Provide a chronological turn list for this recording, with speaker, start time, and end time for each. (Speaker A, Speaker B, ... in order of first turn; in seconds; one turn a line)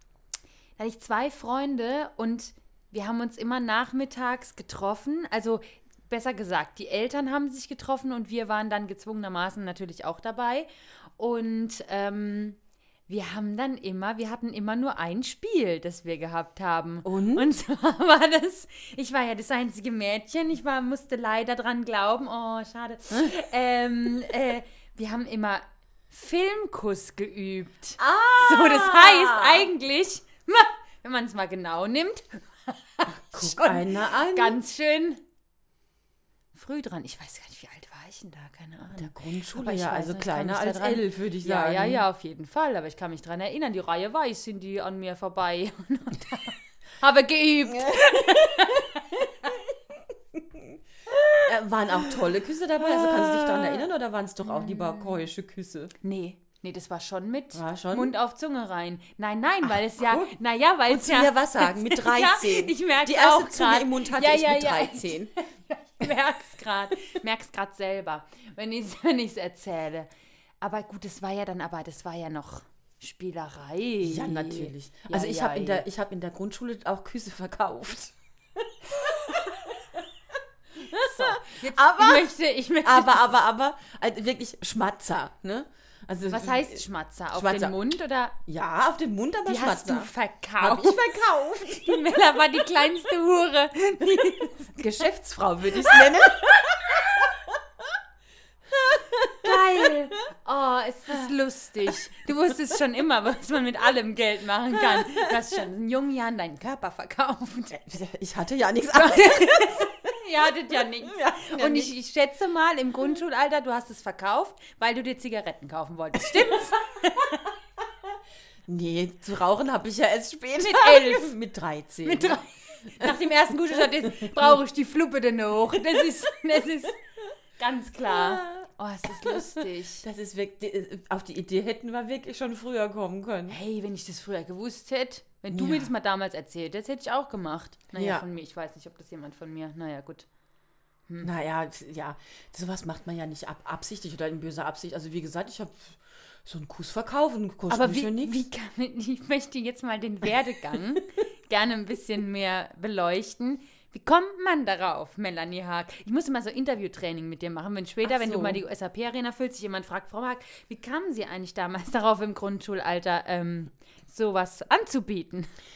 Speaker A: 0.8-35.2
Speaker B: 17.1-17.5
Speaker B: 28.0-29.7
Speaker B: 33.2-34.6
Speaker A: 36.5-49.6
Speaker B: 39.0-42.0
Speaker B: 47.8-48.2
Speaker B: 50.4-50.6
Speaker B: 51.4-55.9
Speaker A: 52.8-53.9
Speaker A: 54.4-55.2
Speaker A: 56.0-70.1
Speaker B: 57.5-58.1
Speaker B: 59.8-60.4
Speaker B: 60.9-65.3
Speaker A: 70.6-75.8
Speaker B: 74.0-80.0
Speaker A: 80.8-83.3
Speaker B: 80.8-82.3
Speaker B: 82.8-87.8
Speaker A: 86.3-88.4
Speaker B: 88.5-92.0
Speaker A: 89.5-91.1
Speaker A: 91.6-94.8
Speaker B: 94.8-97.6
Speaker B: 98.7-100.1
Speaker A: 99.4-107.8
Speaker B: 104.8-105.4
Speaker B: 107.7-110.2
Speaker A: 108.9-117.5
Speaker B: 110.9-111.9
Speaker B: 118.7-122.4
Speaker A: 120.6-121.3
Speaker A: 122.0-127.0
Speaker B: 123.0-124.6
Speaker A: 127.6-130.1
Speaker B: 128.1-128.7
Speaker B: 129.2-133.6
Speaker A: 133.5-140.3
Speaker B: 135.5-135.9
Speaker B: 137.9-138.3
Speaker B: 141.2-148.4
Speaker A: 147.7-165.5
Speaker B: 158.0-158.6